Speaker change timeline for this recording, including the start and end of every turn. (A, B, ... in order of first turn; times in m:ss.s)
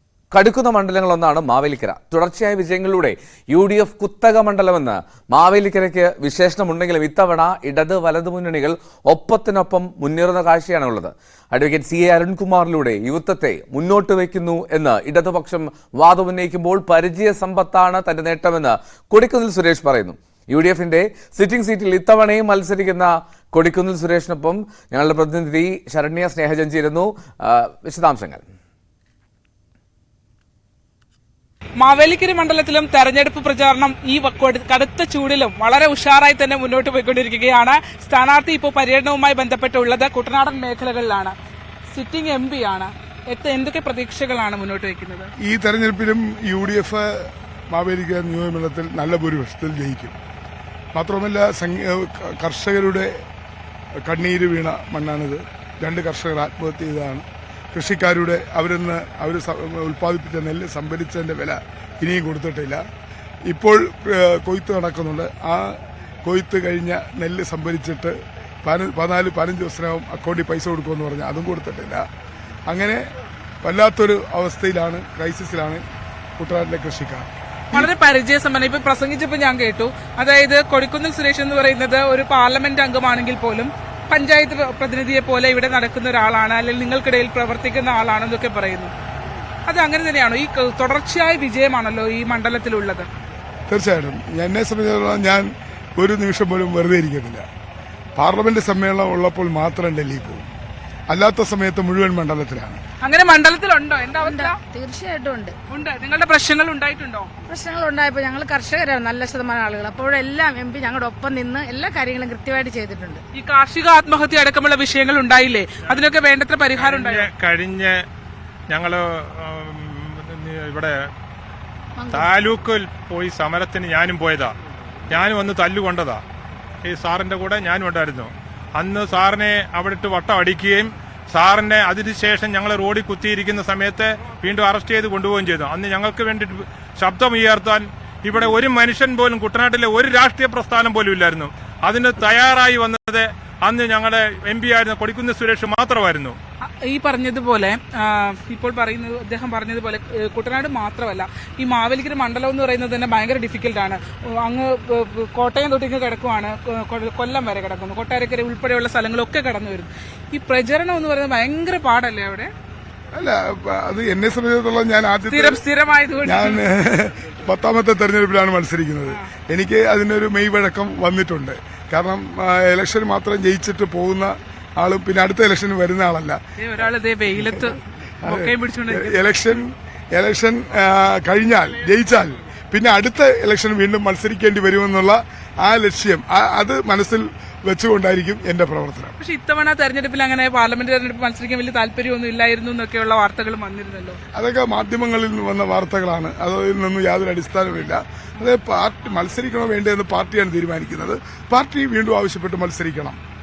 0:00.3-0:28.4 A
0:31.8-0:41.3 B
0:41.9-0:45.3 B
0:45.4-0:50.1 C
0:50.9-0:53.1 C
0:54.0-1:02.8 C
1:03.5-1:12.0 C
1:12.7-1:13.0 C
1:13.6-1:15.8 C
1:16.4-1:17.9 C
1:17.7-1:28.9 B
1:29.7-1:33.1 B
1:33.7-1:35.4 C
1:36.0-1:37.4 C
1:38.2-1:40.5 C
1:41.1-1:42.8 C
1:43.0-1:44.6 B
1:44.2-1:45.6 D
1:45.7-1:47.3 B
1:47.5-1:53.2 D
1:53.3-1:57.3 B
1:56.8-1:58.0 E
1:58.7-2:00.9 E
2:02.0-2:02.3 D
2:02.1-2:04.5 E
2:05.1-2:06.2 E
2:06.8-2:26.4 E
2:26.7-2:42.5 B
2:43.1-2:45.6 C
2:45.3-2:46.6 B
2:46.2-2:56.4 C
2:56.6-2:59.2 B
2:58.2-3:09.1 C
3:09.2-3:14.2 B
3:14.3-3:23.2 C